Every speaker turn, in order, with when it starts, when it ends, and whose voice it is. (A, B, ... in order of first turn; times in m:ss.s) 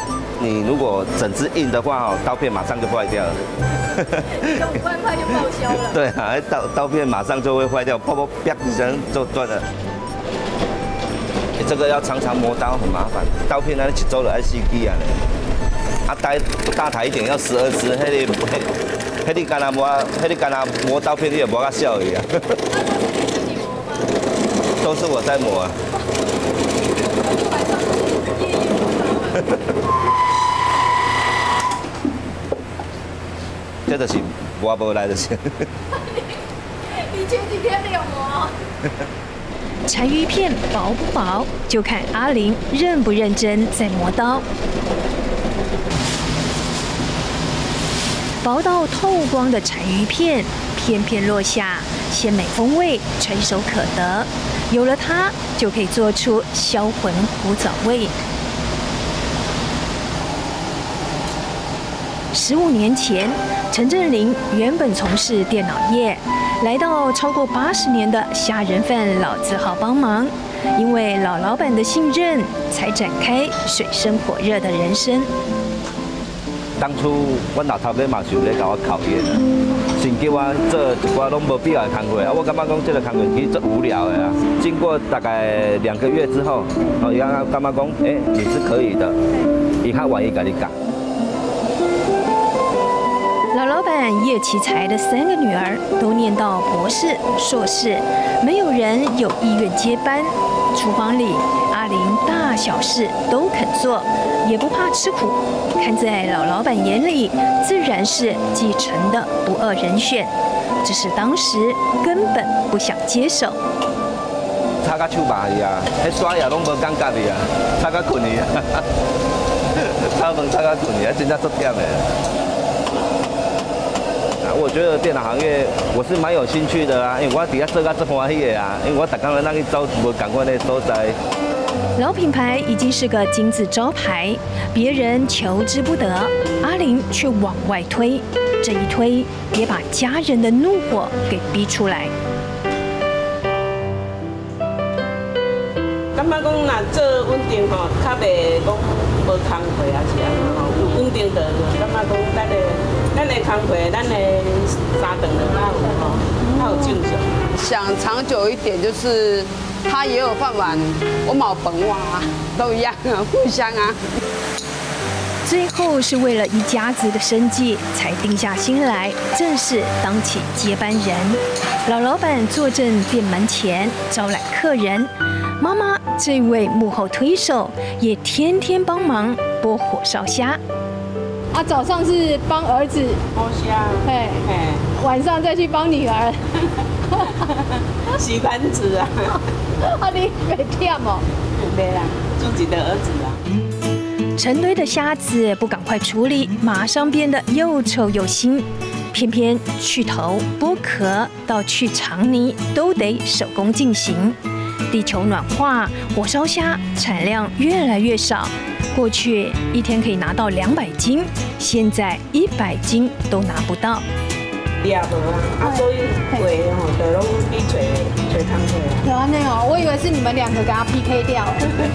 0:00.4-0:03.4 A
0:04.0-0:04.8 A
0:04.4-0:06.0 B
0:05.8-0:09.6 A
0:11.6-0:15.2 A
0:16.0-0:18.7 A
0:19.2-0:22.3 A
0:23.3-0:23.9 B
0:24.8-0:25.7 A
0:27.2-0:29.4 B
0:33.9-0:35.7 A
0:36.0-0:36.2 B
0:36.9-0:38.5 B
0:39.9-0:44.4 C
0:48.4-0:58.1 C
1:02.3-1:15.3 C
1:16.8-1:19.4 A
1:20.0-1:29.2 A
1:29.8-1:30.7 A
1:33.5-1:50.3 C
1:50.8-1:53.6 C
1:54.8-1:58.8 A
1:59.8-2:02.1 A
2:04.4-2:11.2 A
2:12.0-2:22.1 C
2:26.1-2:37.3 D
2:37.6-2:44.0 E
2:45.4-3:00.6 C
3:01.5-3:03.2 B
3:03.3-3:04.9 D
3:04.0-3:04.4 B
3:05.0-3:06.4 B
3:08.2-3:09.4 D
3:09.9-3:11.2 B
3:11.6-3:13.4 D
3:14.4-3:24.4 C
3:24.9-3:34.0 C
3:34.8-3:39.1 D
3:39.0-3:41.7 B